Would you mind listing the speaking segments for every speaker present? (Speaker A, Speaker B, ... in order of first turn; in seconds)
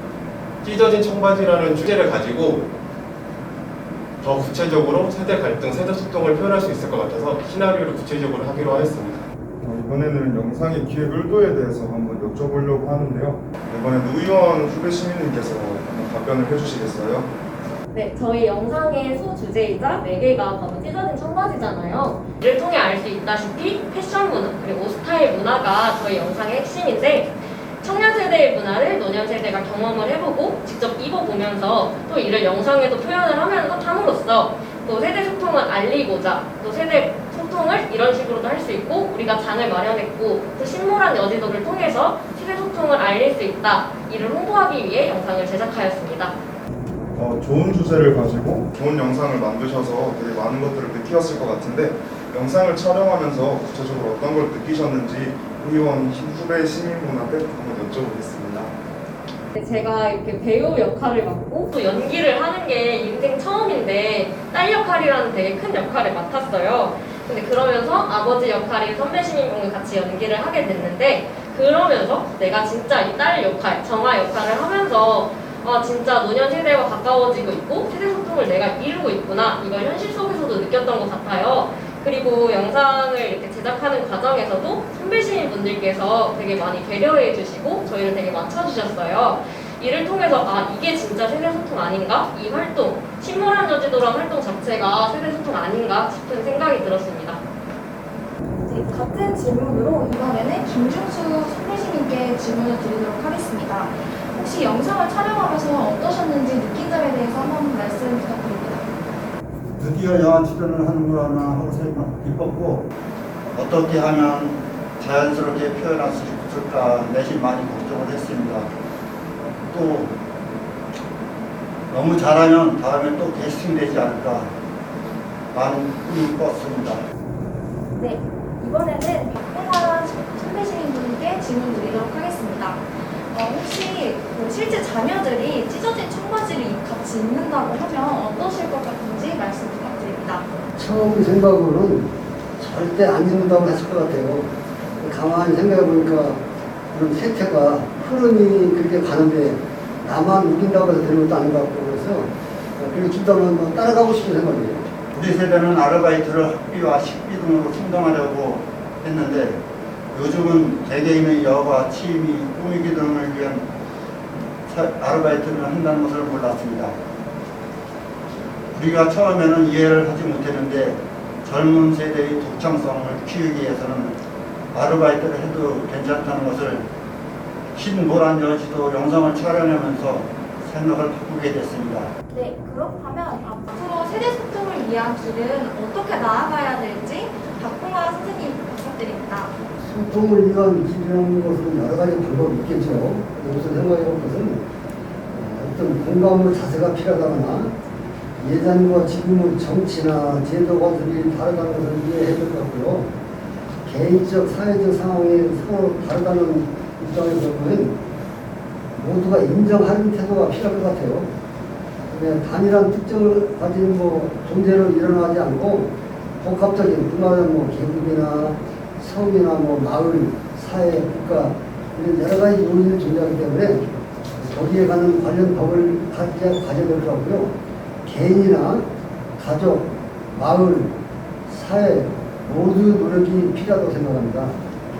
Speaker A: 0.6-2.7, 4.2-9.3
Speaker B: 9.6-17.3, 47.1-58.7
Speaker C: 17.9-46.4, 59.5-97.4
Speaker D: 98.5-108.9, 127.9-140.5, 182.3-189.5
Speaker E: 109.8-112.9, 113.5-118.7, 119.7-120.1, 121.9-124.5, 125.5-127.0, 155.1-159.6, 160.1-163.7, 164.7-167.0, 168.7-174.2, 174.7-176.9, 177.7-182.1
Speaker F: 140.8-144.5, 145.0-146.4, 146.9-154.9, 189.8-194.6, 195.3-197.7, 198.4-203.1, 203.9-208.0, 208.9-211.3, 212.1-228.9, 229.4-231.0, 231.5-234.6